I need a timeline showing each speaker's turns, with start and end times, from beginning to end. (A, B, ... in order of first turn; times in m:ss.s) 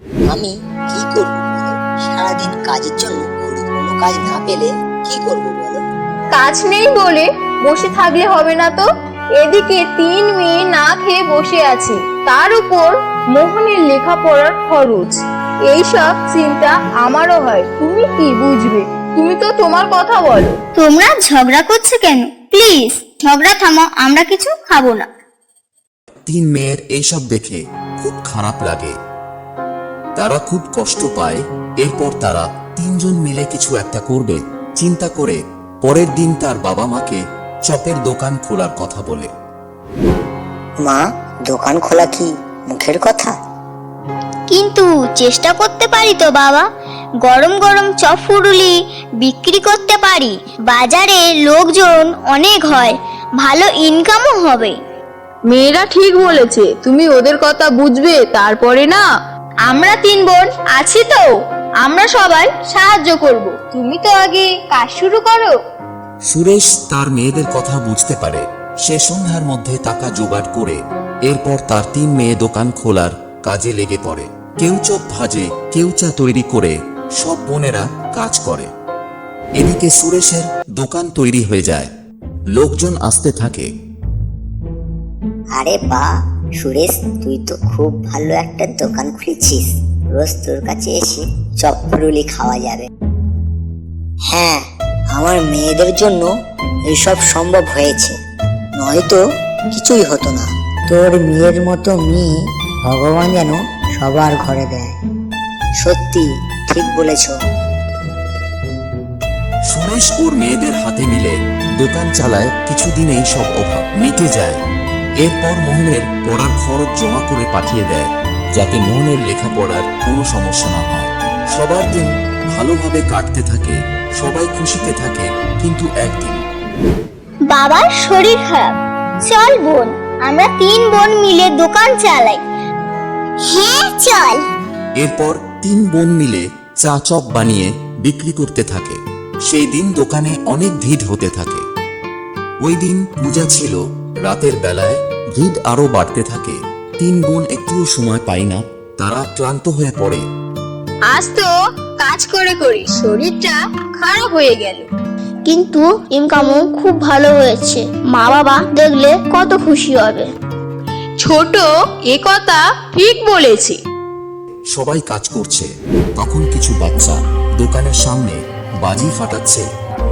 0:00.3-0:05.8 A
0:06.3-0:08.9 B
0:09.4-0:20.6 B
0:20.8-0:25.1 C
0:26.2-0:28.9 D
0:30.2-0:39.3 D
0:40.8-0:43.3 A
0:44.5-0:46.6 C
0:47.2-0:54.8 C
0:55.5-0:59.0 B
0:59.7-1:05.5 B
1:06.3-1:18.7 D
1:19.6-1:21.9 D
1:22.5-1:23.7 D
1:25.6-1:32.9 A
1:34.3-1:36.3 A
1:36.9-1:38.1 A
1:38.8-1:39.2 A
1:39.7-1:42.3 A
1:42.9-1:45.0 A
1:45.8-1:47.3 A
1:49.7-1:54.6 D
1:55.2-2:06.4 D
2:07.5-2:12.4 C
2:13.4-2:14.4 C
2:15.0-2:21.6 D
2:22.6-2:30.2 D
2:31.1-2:34.9 B
2:35.4-2:40.3 C
2:41.2-2:43.8 B
2:44.7-2:49.7 D